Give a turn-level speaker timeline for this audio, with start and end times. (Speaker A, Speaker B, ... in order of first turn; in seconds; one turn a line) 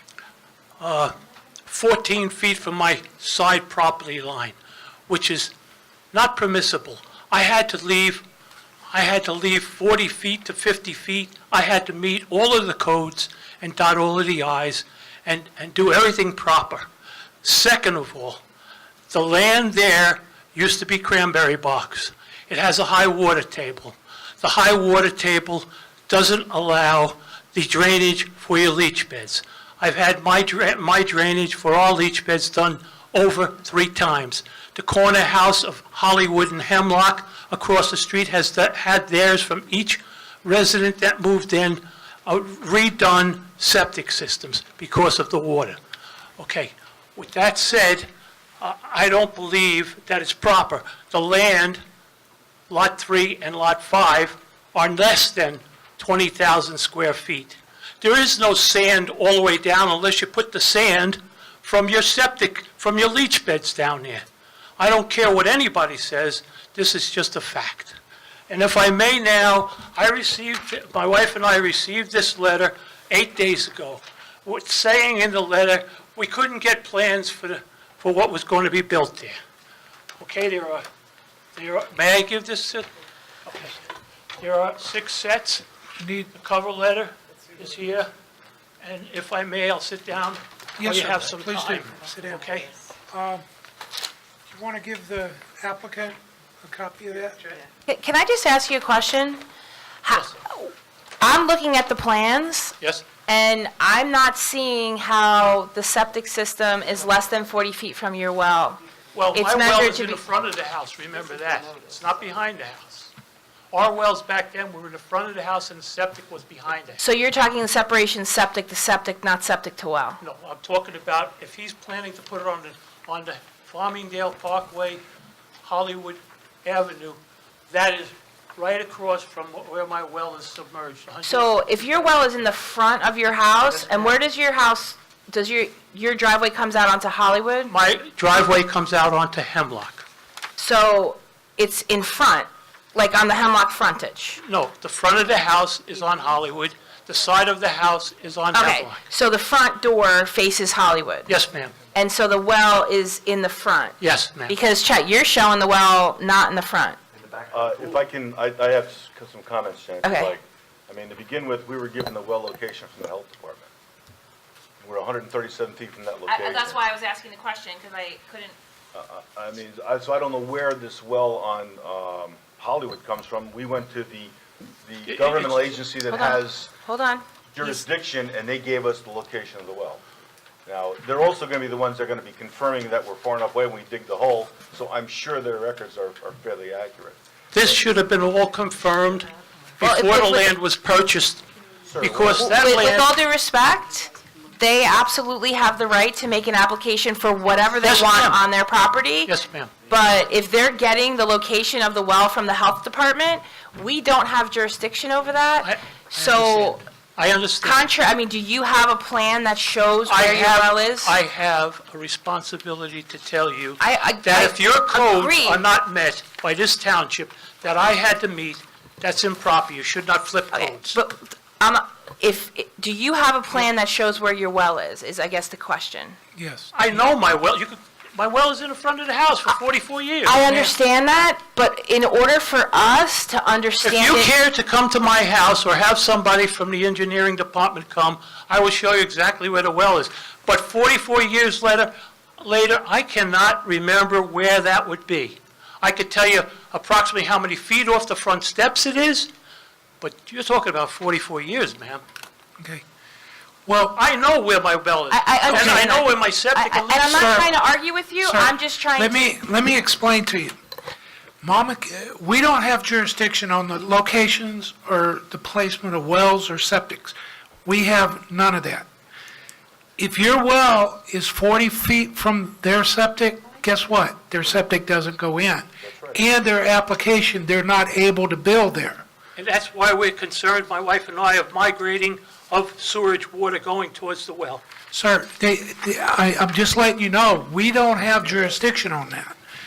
Speaker A: 0.8-1.1
Speaker A: 1.7-4.6
Speaker A: 5.1-5.5
Speaker A: 6.1-8.2
Speaker A: 8.9-16.9
Speaker A: 17.4-18.4
Speaker A: 19.1-45.8
Speaker A: 46.4-51.8
Speaker A: 52.7-64.3
Speaker A: 64.8-68.0
Speaker A: 68.5-79.4
Speaker A: 80.2-80.9
Speaker A: 81.6-82.9
Speaker A: 83.5-83.8
Speaker A: 84.4-85.7
Speaker B: 86.0-86.3
Speaker A: 86.3-88.1
Speaker A: 88.8-92.7
Speaker B: 90.8-93.5
Speaker B: 94.5-97.6
Speaker C: 97.9-99.4
Speaker C: 100.0-108.8
Speaker A: 100.1-100.4
Speaker A: 102.8-103.0
Speaker A: 109.1-113.1
Speaker C: 109.3-110.2
Speaker A: 113.7-117.0
Speaker C: 117.0-120.2
Speaker A: 120.2-125.0
Speaker A: 125.6-132.2
Speaker C: 131.2-137.7
Speaker A: 133.8-134.1
Speaker A: 137.7-140.0
Speaker C: 140.6-144.4
Speaker A: 144.4-149.0
Speaker C: 148.5-151.3
Speaker A: 151.3-151.8
Speaker C: 151.9-157.0
Speaker A: 154.0-154.6
Speaker D: 157.5-163.7
Speaker C: 160.0-160.3
Speaker D: 164.8-166.8
Speaker C: 166.3-168.6
Speaker D: 168.9-176.7
Speaker A: 175.1-175.8
Speaker C: 176.1-177.8
Speaker D: 177.5-180.0
Speaker D: 180.7-187.2
Speaker A: 187.5-191.4
Speaker C: 189.8-190.5
Speaker D: 191.8-192.6
Speaker A: 192.0-193.1
Speaker C: 192.6-199.3
Speaker A: 197.8-198.4
Speaker A: 199.2-199.7
Speaker C: 199.9-206.8
Speaker A: 205.6-207.8
Speaker C: 207.6-211.1
Speaker A: 210.1-221.0
Speaker C: 213.8-215.6
Speaker C: 220.5-226.2
Speaker B: 226.4-226.7
Speaker A: 226.7-230.7
Speaker C: 230.2-234.3
Speaker A: 233.8-249.3
Speaker A: 250.0-252.0
Speaker B: 253.7-254.0
Speaker A: 253.9-257.5
Speaker C: 255.1-259.2
Speaker B: 255.5-255.8
Speaker B: 257.1-257.5
Speaker B: 258.2-260.5
Speaker B: 261.4-268.9
Speaker B: 270.0-279.0
Speaker D: 275.8-276.2
Speaker A: 279.4-284.6
Speaker B: 284.9-289.3